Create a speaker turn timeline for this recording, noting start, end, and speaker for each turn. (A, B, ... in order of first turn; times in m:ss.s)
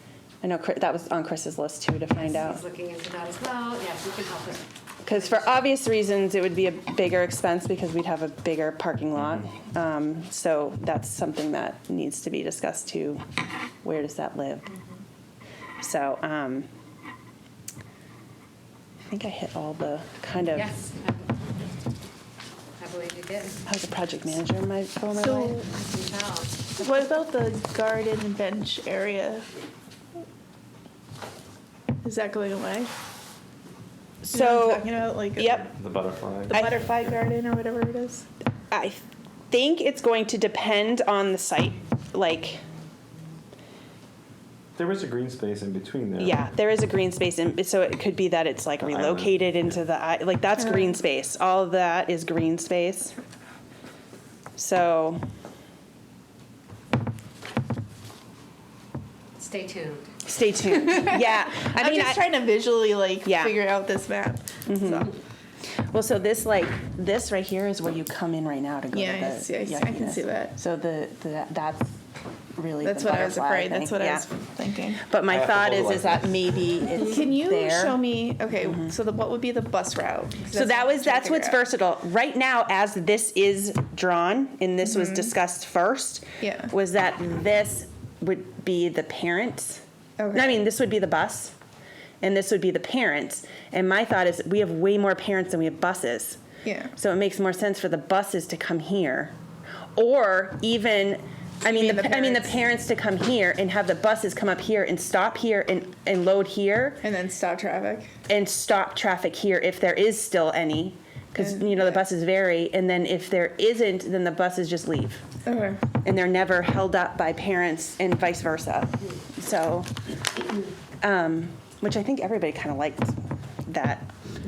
0:00.4-0:02.6 A
0:02.2-0:05.6 B
0:05.0-0:13.2 A
0:13.8-0:14.7 A
0:15.8-0:16.7 A
0:19.1-0:20.7 A
0:20.5-0:21.6 B
0:22.8-0:23.6 B
0:23.7-0:25.6 A
0:25.1-0:25.6 C
0:25.6-0:26.8 B
0:26.8-0:29.5 C
0:32.0-0:32.9 C
0:34.2-0:35.7 A
0:34.2-0:35.6 C
0:35.7-0:36.6 D
0:36.5-0:38.3 C
0:38.7-0:42.6 A
0:44.8-0:46.4 D
0:46.2-0:53.1 A
0:48.8-0:49.7 D
0:54.6-0:55.2 A
0:59.4-1:00.1 B
1:00.2-1:02.4 A
1:00.8-1:05.1 C
1:03.2-1:03.6 A
1:04.6-1:05.1 A
1:05.9-1:12.0 A
1:08.9-1:10.6 C
1:12.6-1:14.3 A
1:12.8-1:15.0 C
1:15.0-1:18.0 A
1:15.2-1:16.4 D
1:17.1-1:21.6 C
1:18.6-1:18.9 A
1:20.5-1:31.5 A
1:24.8-1:25.3 C
1:26.4-1:26.7 C
1:30.2-1:30.6 C
1:32.2-1:36.4 A
1:36.6-1:36.9 C
1:36.9-1:39.3 A
1:40.0-1:47.0 A
1:41.6-1:42.6 C
1:47.0-1:48.1 C
1:48.3-1:55.2 A
1:51.4-1:52.0 C
1:55.4-1:55.8 C
1:56.0-1:59.9 A
2:01.0-2:04.1 A